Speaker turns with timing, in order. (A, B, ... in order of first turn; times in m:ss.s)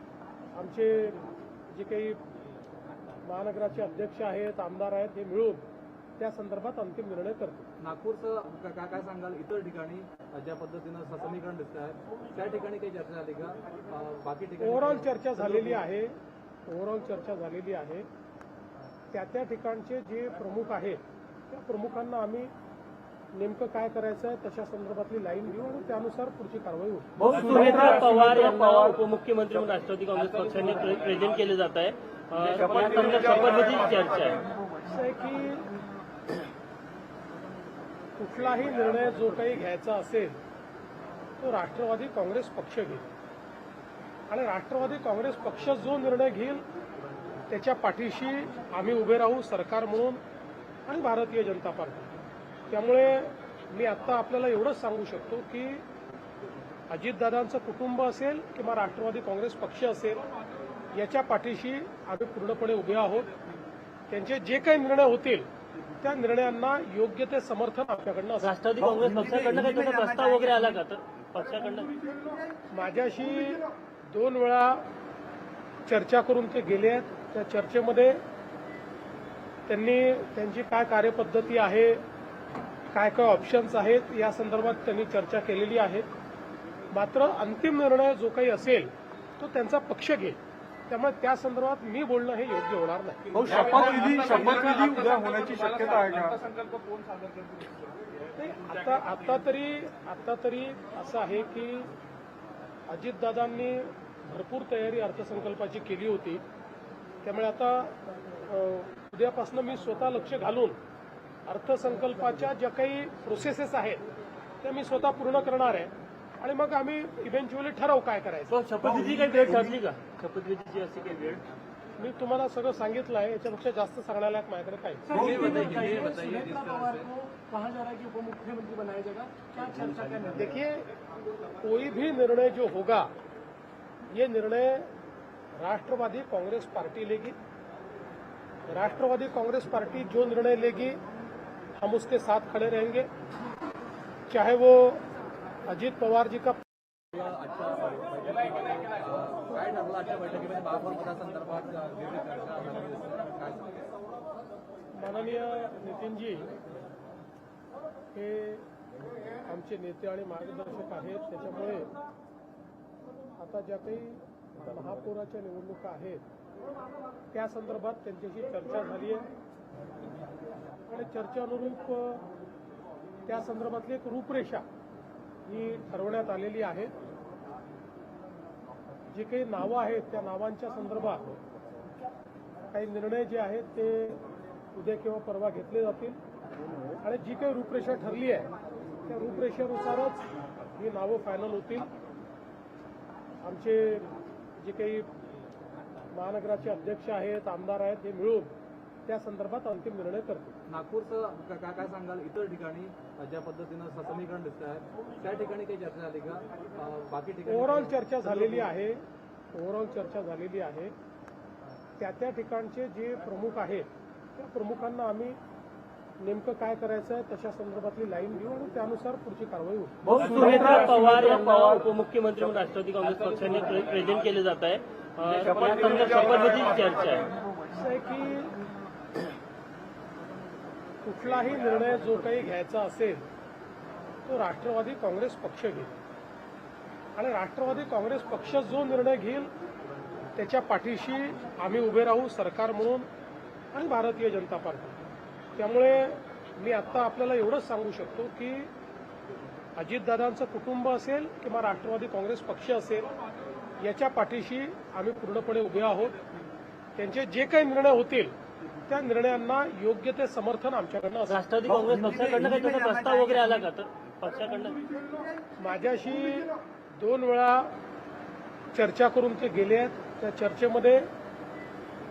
0:00.6-0:02.2 A
0:03.2-0:07.7 A
0:07.8-0:15.6 B
0:14.6-0:18.1 A
0:19.1-0:22.5 A
0:23.3-0:27.2 A
0:27.2-0:34.4 C
0:34.8-0:35.8 A
0:38.2-0:40.4 A
0:41.4-0:43.1 A
0:44.3-0:46.7 A
0:47.5-0:50.2 A
0:50.9-0:52.2 A
0:52.7-0:55.9 A
0:56.9-1:00.2 A
1:00.9-1:03.3 A
1:04.1-1:08.5 A
1:08.4-1:12.3 C
1:12.7-1:14.9 A
1:15.9-1:18.2 A
1:19.7-1:22.1 A
1:22.9-1:26.1 A
1:26.9-1:33.5 A
1:33.5-1:38.2 D
1:38.4-1:41.9 A
1:42.9-1:46.4 A
1:47.2-1:50.8 A
1:51.5-1:54.0 A
1:54.6-1:58.6 A
1:58.5-2:01.4 C
2:02.0-2:05.2 A
2:05.2-2:10.3 E
2:05.3-2:05.8 B
2:10.3-2:10.9 A
2:11.6-2:13.1 A
2:14.1-2:14.9 A
2:15.6-2:17.4 A
2:18.6-2:21.0 A
2:21.8-2:23.1 A
2:24.3-2:25.1 A
2:25.7-2:26.7 A
2:27.1-2:33.7 B
2:35.0-2:36.5 A
2:38.1-2:38.7 A
2:39.4-2:41.9 A
2:43.4-2:46.2 A
2:47.3-2:49.3 A
2:50.9-2:52.3 A
2:53.3-2:54.6 A
2:55.4-2:57.0 A
2:59.1-3:01.4 A
3:02.7-3:06.2 A
3:07.0-3:08.5 A
3:09.0-3:11.9 A
3:13.4-3:15.1 A
3:16.1-3:20.6 A
3:20.7-3:28.6 B
3:27.5-3:30.9 A
3:32.0-3:35.4 A
3:36.2-3:40.1 A
3:40.1-3:47.3 C
3:47.7-3:48.6 A
3:51.0-3:53.3 A
3:54.3-3:56.0 A
3:57.2-3:59.5 A
4:00.3-4:03.1 A
4:03.7-4:05.0 A
4:05.6-4:08.7 A
4:09.8-4:13.1 A
4:13.8-4:16.2 A
4:17.0-4:18.4 A
4:18.9-4:21.4 A
4:21.3-4:24.8 C
4:25.6-4:27.8 A
4:28.7-4:31.1 A